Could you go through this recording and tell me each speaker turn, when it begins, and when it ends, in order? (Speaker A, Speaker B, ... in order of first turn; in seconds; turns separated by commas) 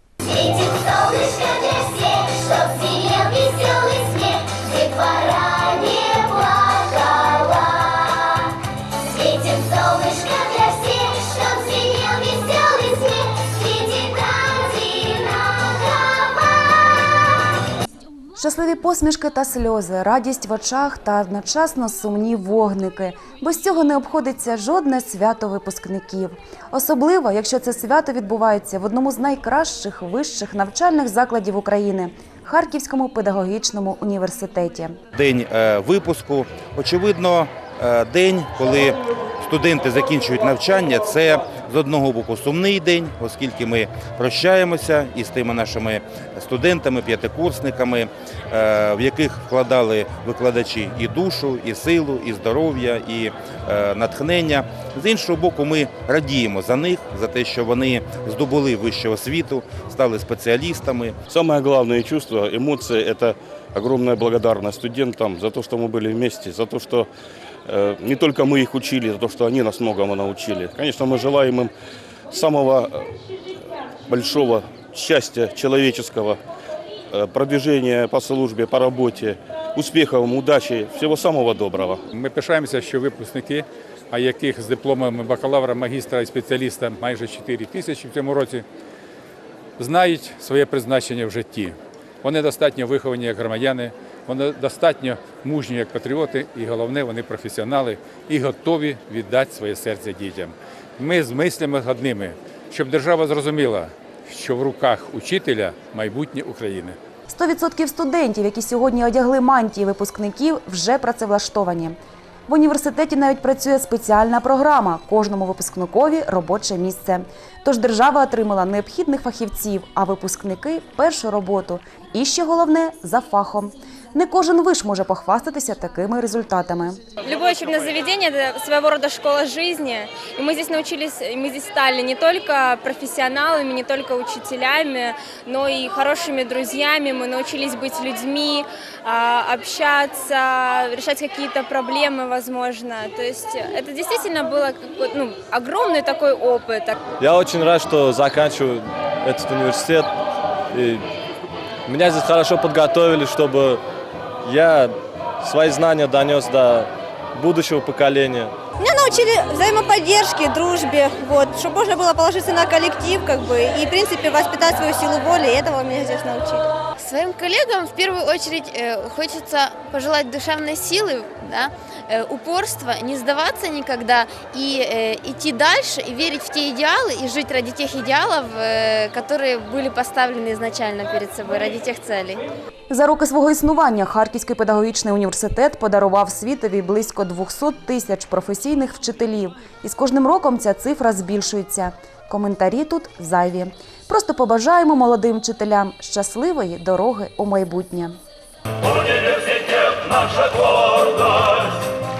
Speaker A: 0.2-8.3, Speaker A: 9.2-17.0, Speaker B: 18.4-35.0, Speaker C: 35.1-61.1, Speaker D: 61.3-67.1, Speaker D: 67.7-71.7, Speaker D: 72.3-73.1, Speaker D: 74.1-76.4, Speaker D: 77.1-82.0, Speaker E: 82.1-88.6, Speaker E: 89.8-107.0, Speaker B: 107.3-112.0, Speaker B: 112.5-127.0, Speaker F: 127.2-147.0, Speaker G: 147.2-150.1, Speaker G: 150.7-151.0, Speaker G: 151.9-153.8, Speaker G: 154.4-158.5, Speaker H: 158.8-166.5, Speaker I: 167.0-182.4, Speaker B: 182.9-198.1